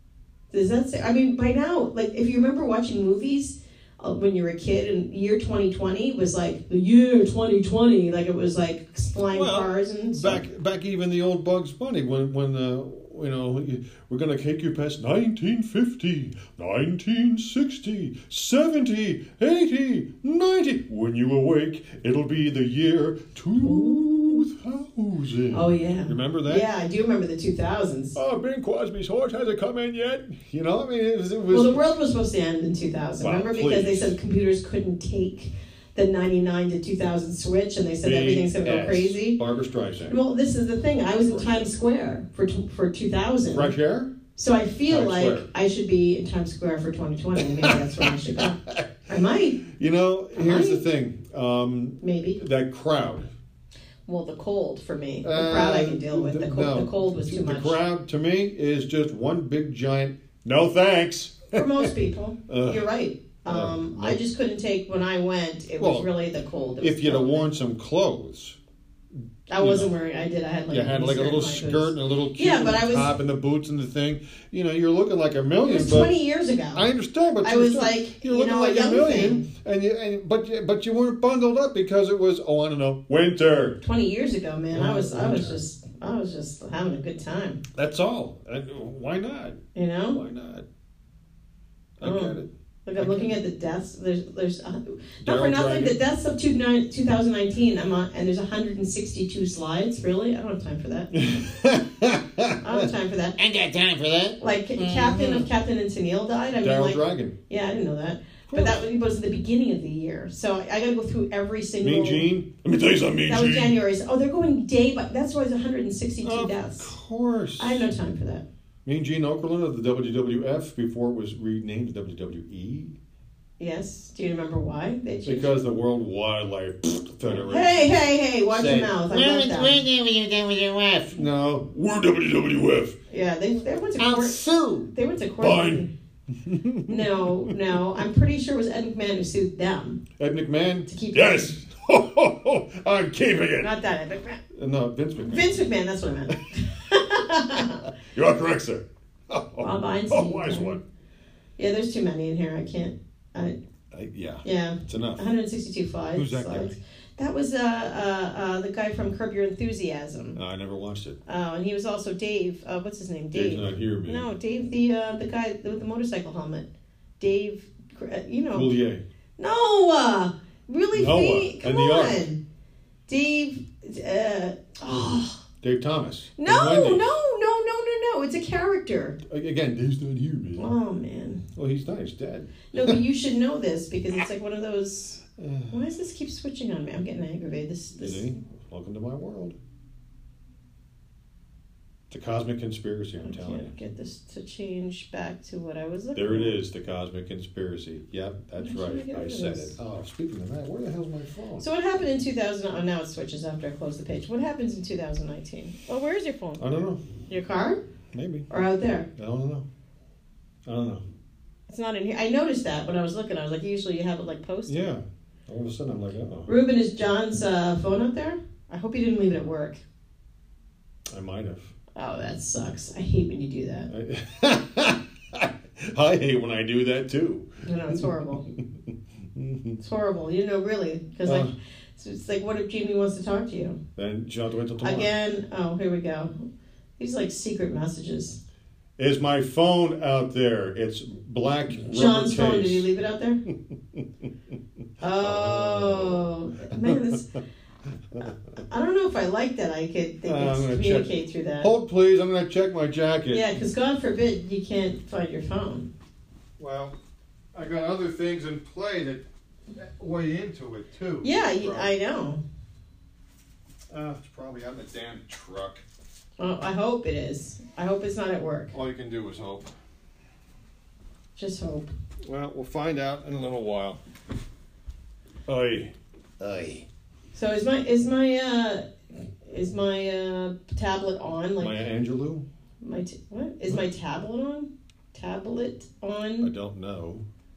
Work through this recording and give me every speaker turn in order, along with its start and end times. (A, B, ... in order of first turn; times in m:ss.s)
0:00.5-0:10.4 A
0:09.3-0:26.7 B
0:23.6-0:24.0 A
0:25.5-0:28.2 A
0:28.2-0:31.8 B
0:31.5-0:39.4 A
0:33.2-0:34.2 B
0:38.0-0:40.2 B
0:40.1-0:43.7 A
0:41.3-0:41.7 B
0:43.5-0:44.2 B
0:44.4-0:49.6 A
0:44.9-0:45.5 B
0:47.4-0:48.9 B
0:49.6-0:53.3 B
0:50.3-0:50.8 A
0:52.0-0:52.4 A
0:54.1-0:57.8 A
0:55.2-1:01.9 B
1:01.5-1:07.5 A
1:02.5-1:02.9 B
1:03.4-1:04.2 B
1:05.8-1:06.1 B
1:06.8-1:08.6 B
1:09.5-1:13.2 A
1:09.6-1:09.9 B
1:10.7-1:16.1 B
1:15.6-1:16.9 A
1:16.7-1:23.8 B
1:17.4-1:19.5 A
1:23.8-1:27.6 A
1:24.7-1:25.6 B
1:27.7-1:30.7 B
1:29.8-1:30.2 A
1:32.0-1:33.4 B
1:32.0-1:41.3 A
1:35.2-1:36.0 B
1:41.1-1:42.9 B
1:42.6-1:43.4 A
1:43.4-1:45.5 C
1:44.4-1:52.3 A
1:46.6-1:47.4 B
1:48.5-1:48.8 B
1:51.8-1:53.8 B
1:53.3-1:56.9 A
1:56.2-1:57.9 B
1:57.6-1:58.4 A
1:58.8-2:03.0 B
2:03.6-2:05.6 A
2:05.2-2:07.9 B
2:07.3-2:09.8 A
2:08.5-2:09.0 B
2:09.1-2:11.2 C
2:11.1-2:13.0 B
2:13.1-2:15.9 A
2:14.0-2:14.9 C
2:15.4-2:17.8 B
2:16.9-2:20.0 A
2:20.2-2:23.8 B
2:20.9-2:21.6 A
2:23.6-2:24.4 A
2:24.5-2:25.6 B
2:25.2-2:27.9 A
2:28.1-2:30.8 B
2:29.6-2:30.8 A
2:31.6-2:33.6 A
2:33.9-2:35.2 B
2:34.4-2:40.4 A
2:36.1-2:36.8 B
2:40.4-2:41.2 B
2:41.3-2:46.7 A
2:43.3-2:44.3 B
2:47.2-2:48.7 A
2:48.5-2:49.0 B
2:49.4-2:52.4 A
2:50.9-2:52.2 B
2:53.1-2:55.4 A
2:55.6-2:57.0 B
2:56.4-2:59.2 A
2:59.3-3:00.7 B
3:00.6-3:01.4 A
3:01.6-3:03.0 B
3:02.7-3:08.3 A
3:05.4-3:05.9 B
3:08.0-3:09.6 B
3:12.1-3:13.7 B
3:13.2-3:16.6 A
3:16.1-3:21.7 B
3:18.6-3:19.8 A
3:21.6-3:26.6 A
3:26.6-3:27.1 B
3:27.3-3:27.8 A
3:28.1-3:28.5 B
3:28.5-3:29.1 A
3:29.2-3:29.7 B
3:30.7-3:31.0 B
3:31.7-3:34.8 A
3:34.7-3:36.5 B
3:36.5-3:39.8 A
3:41.1-3:41.7 B
3:42.0-3:43.9 A
3:43.9-3:48.6 B
3:47.6-3:48.5 A
3:49.4-3:49.8 B
3:49.8-3:53.8 A
3:51.2-3:51.5 B
3:54.0-3:55.1 B
3:54.8-3:56.5 A
3:57.0-3:58.4 A
3:59.0-4:02.9 B
4:01.8-4:03.4 A
4:03.7-4:04.1 B
4:05.0-4:07.3 A
4:05.2-4:07.2 B
4:08.2-4:11.7 A
4:10.2-4:13.6 B
4:13.3-4:15.9 A
4:16.6-4:17.0 B
4:17.5-4:21.9 B
4:21.2-4:22.4 A
4:23.9-4:25.8 B
4:26.4-4:28.7 A
4:28.7-4:29.7 B
4:31.4-4:31.9 A
4:32.2-4:34.0 B
4:35.5-4:36.9 B
4:37.3-4:41.8 A
4:41.6-4:42.5 B
4:42.8-4:46.5 A
4:46.4-4:47.2 B